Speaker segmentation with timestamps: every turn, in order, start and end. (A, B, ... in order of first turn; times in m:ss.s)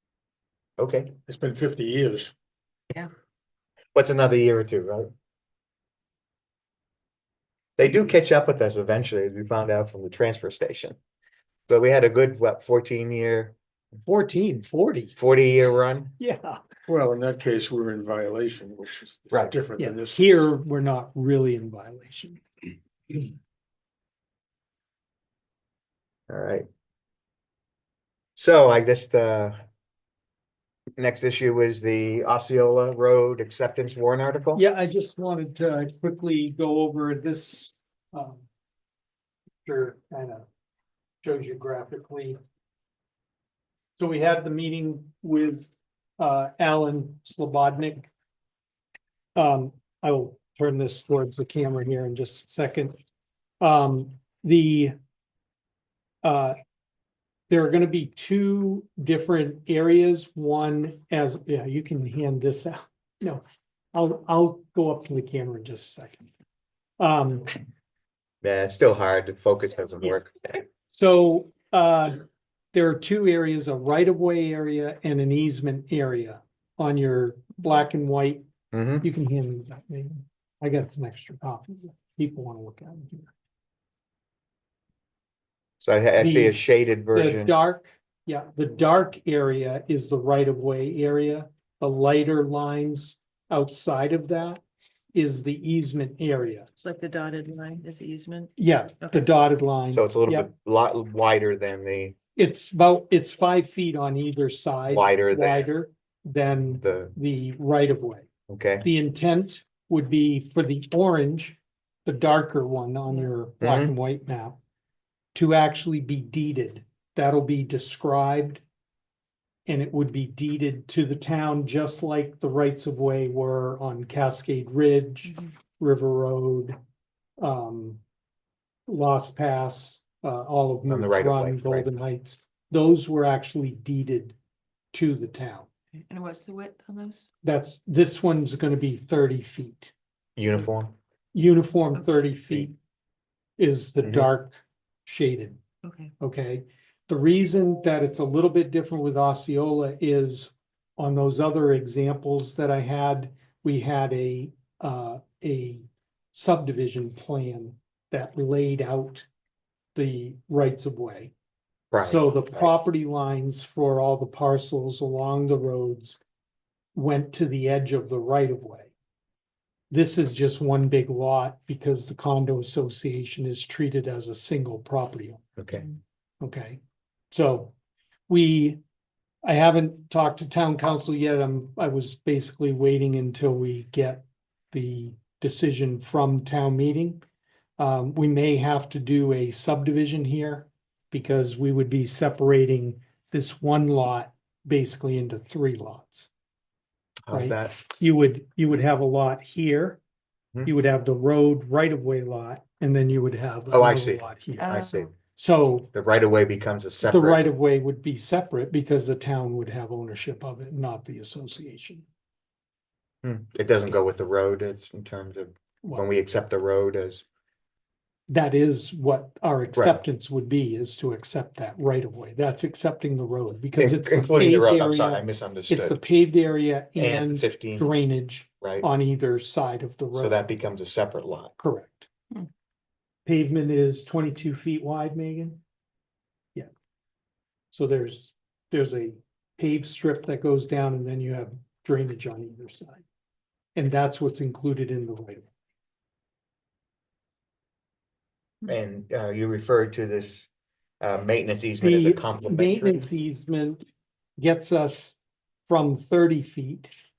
0:00.8-0:01.1 A
0:01.3-0:02.3 B
0:03.9-0:05.1 A
0:07.8-0:11.0 A
0:11.7-0:13.5 A
0:14.0-0:15.2 C
0:15.2-0:16.1 A
0:16.2-0:16.6 C
0:16.9-0:20.2 B
0:19.8-0:22.4 C
0:26.3-0:26.6 A
0:28.4-0:29.6 A
0:31.0-0:34.6 A
0:34.5-0:38.4 C
0:39.6-0:40.4 C
0:41.2-0:42.4 C
0:44.0-0:48.1 C
0:49.3-0:53.0 C
0:53.6-0:54.9 C
0:56.2-0:56.6 C
0:57.5-1:06.3 C
1:07.0-1:07.6 C
1:08.4-1:10.6 A
1:10.9-1:18.4 C
1:18.7-1:19.1 A
1:19.0-1:23.3 C
1:25.8-1:27.5 A
1:26.2-1:26.6 C
1:27.1-1:34.6 C
1:35.1-1:36.7 C
1:36.8-1:38.4 D
1:38.1-1:38.5 B
1:38.6-1:40.5 C
1:39.9-1:42.1 A
1:42.4-1:48.3 C
1:44.9-1:45.7 A
1:46.8-1:47.1 A
1:48.5-1:48.9 A
1:48.8-1:54.6 C
1:53.6-1:53.9 A
1:55.3-1:58.6 C
1:59.6-2:06.8 C
2:07.4-2:08.0 C
2:08.9-2:14.4 C
2:10.8-2:11.9 A
2:14.9-2:15.7 C
2:16.0-2:17.2 D
2:17.4-2:19.9 C
2:20.4-2:20.9 A
2:21.3-2:22.7 C
2:23.6-2:25.6 C
2:24.0-2:24.3 A
2:25.8-2:26.1 D
2:26.2-2:39.3 C
2:39.9-2:41.3 C
2:41.9-2:42.7 A
2:42.0-2:46.2 C
2:46.9-2:48.9 C
2:49.9-2:55.4 C
2:55.6-2:55.9 A
2:56.4-2:56.8 C
2:57.3-2:57.7 C
2:58.3-2:58.8 C
2:59.4-3:07.2 C
3:07.8-3:16.3 C
3:17.2-3:17.7 A
3:17.3-3:20.0 C
3:20.6-3:24.7 C
3:23.7-3:25.1 A
3:24.6-3:25.1 D
3:25.3-3:25.9 C
3:25.9-3:27.4 A
3:27.0-3:32.0 C
3:33.2-3:37.2 A
3:35.8-3:36.1 C
3:38.3-3:50.4 C
3:43.8-3:46.0 A
3:47.0-3:47.9 A
3:50.2-3:51.5 A
3:51.6-3:52.1 C
3:53.2-3:55.6 C
3:57.7-4:03.0 C
4:03.8-4:05.5 C
4:08.6-4:10.5 A
4:11.0-4:13.0 A
4:11.8-4:13.8 C
4:14.4-4:16.9 C